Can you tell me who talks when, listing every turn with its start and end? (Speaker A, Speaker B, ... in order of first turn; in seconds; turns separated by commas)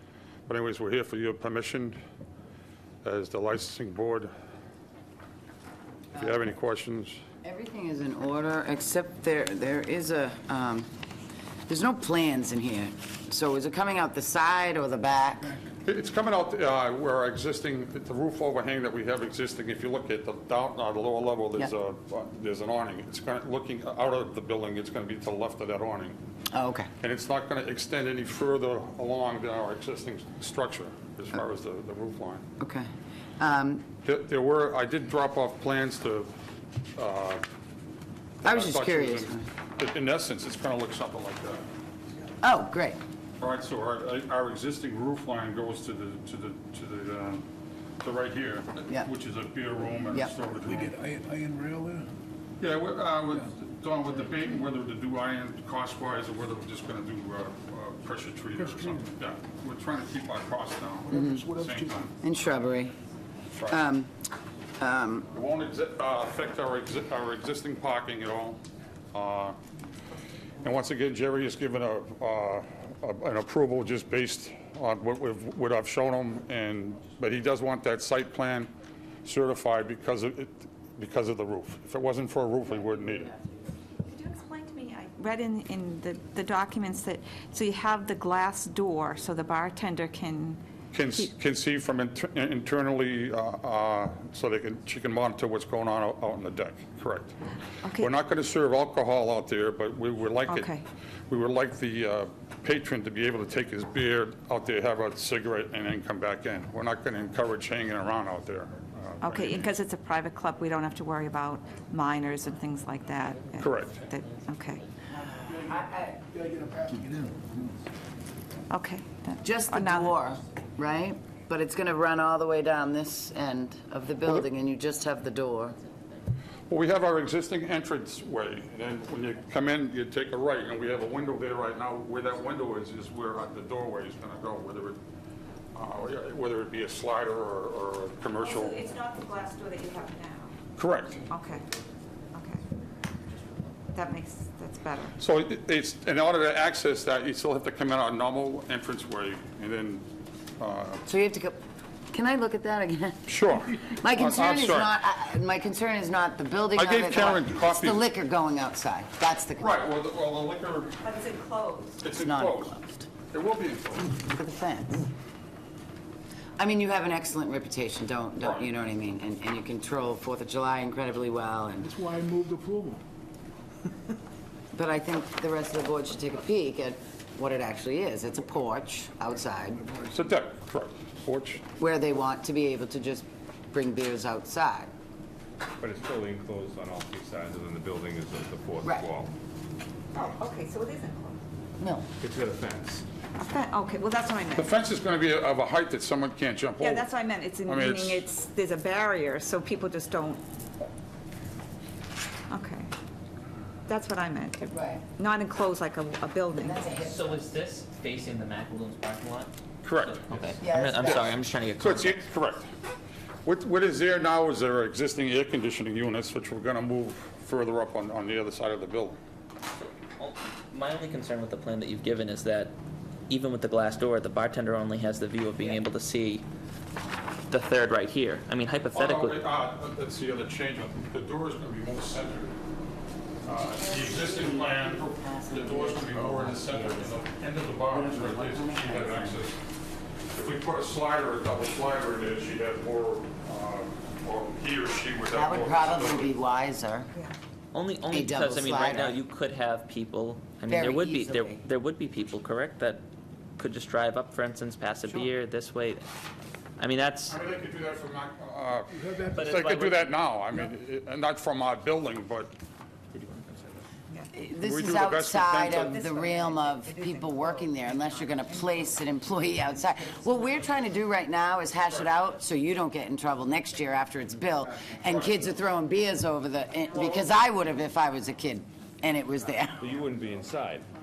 Speaker A: 0.5-2.0, Speaker A: 3.0-4.3, Speaker A: 6.1-7.2, Speaker B: 7.4-10.9, Speaker B: 11.7-15.6, Speaker A: 15.6-26.2, Speaker B: 26.5-26.9, Speaker A: 27.0-32.4, Speaker B: 32.6-32.9, Speaker B: 33.4-33.9, Speaker A: 34.0-36.4, Speaker A: 37.0-37.4, Speaker A: 38.4-41.6, Speaker B: 38.4-39.5, Speaker B: 42.4-43.0, Speaker A: 43.4-47.4, Speaker A: 48.0-50.9, Speaker C: 50.6-52.1, Speaker A: 52.6-62.1, Speaker C: 58.6-59.0, Speaker C: 61.1-62.1, Speaker B: 61.1-61.5, Speaker B: 62.2-63.0, Speaker A: 63.5-63.8, Speaker B: 63.7-64.2, Speaker B: 64.8-65.3, Speaker A: 65.3-68.6, Speaker A: 69.1-69.6, Speaker A: 70.6-78.7, Speaker A: 79.2-83.3, Speaker D: 84.0-90.6, Speaker A: 90.9-97.4, Speaker D: 97.8-98.1, Speaker A: 97.9-100.7, Speaker D: 100.5-100.8, Speaker A: 101.3-109.7, Speaker D: 109.2-114.8, Speaker A: 113.6-113.9, Speaker B: 115.1-116.2, Speaker C: 115.5-117.7, Speaker D: 118.7-120.2, Speaker B: 119.4-125.8, Speaker A: 126.7-135.0, Speaker A: 135.7-138.8, Speaker D: 138.4-140.5, Speaker A: 140.8-141.2, Speaker D: 141.3-141.7, Speaker D: 142.3-142.6, Speaker D: 143.9-145.2, Speaker A: 145.2-151.0, Speaker B: 151.1-151.6, Speaker B: 152.1-159.8, Speaker A: 153.3-154.9, Speaker A: 156.8-158.0, Speaker A: 159.6-161.0, Speaker D: 161.0-162.0, Speaker A: 162.0-164.2, Speaker B: 162.2-163.0, Speaker B: 164.2-165.1, Speaker B: 166.6-171.9, Speaker A: 168.4-168.7, Speaker C: 171.8-173.0, Speaker B: 174.7-179.9, Speaker A: 180.1-181.6, Speaker B: 181.8-184.9, Speaker E: 185.8-189.3, Speaker B: 188.8-189.1, Speaker D: 190.1-191.4, Speaker B: 191.8-192.0, Speaker E: 192.2-193.0, Speaker D: 193.4-194.7, Speaker A: 194.5-197.1, Speaker D: 196.8-200.4, Speaker A: 197.7-198.2, Speaker D: 202.5-202.9, Speaker D: 203.9-207.0, Speaker B: 204.7-205.0, Speaker B: 206.6-207.4, Speaker F: 207.0-212.2, Speaker A: 209.8-210.2, Speaker B: 210.6-211.3, Speaker A: 211.0-212.7, Speaker A: 213.4-219.2, Speaker F: 219.8-222.7, Speaker F: 223.3-226.4, Speaker F: 227.5-229.4, Speaker A: 228.9-232.6, Speaker A: 233.4-239.6, Speaker B: 233.7-237.2, Speaker B: 237.9-239.4, Speaker A: 240.3-246.3, Speaker B: 245.3-247.1, Speaker F: 247.7-253.0, Speaker B: 248.1-249.2, Speaker B: 250.7-251.6, Speaker F: 253.6-256.1, Speaker F: 256.8-257.3, Speaker A: 257.3-262.5, Speaker C: 258.9-259.4, Speaker F: 259.3-260.1, Speaker F: 263.1-263.8, Speaker B: 264.3-279.9, Speaker A: 264.6-266.1, Speaker A: 276.9-277.3, Speaker E: 279.8-280.9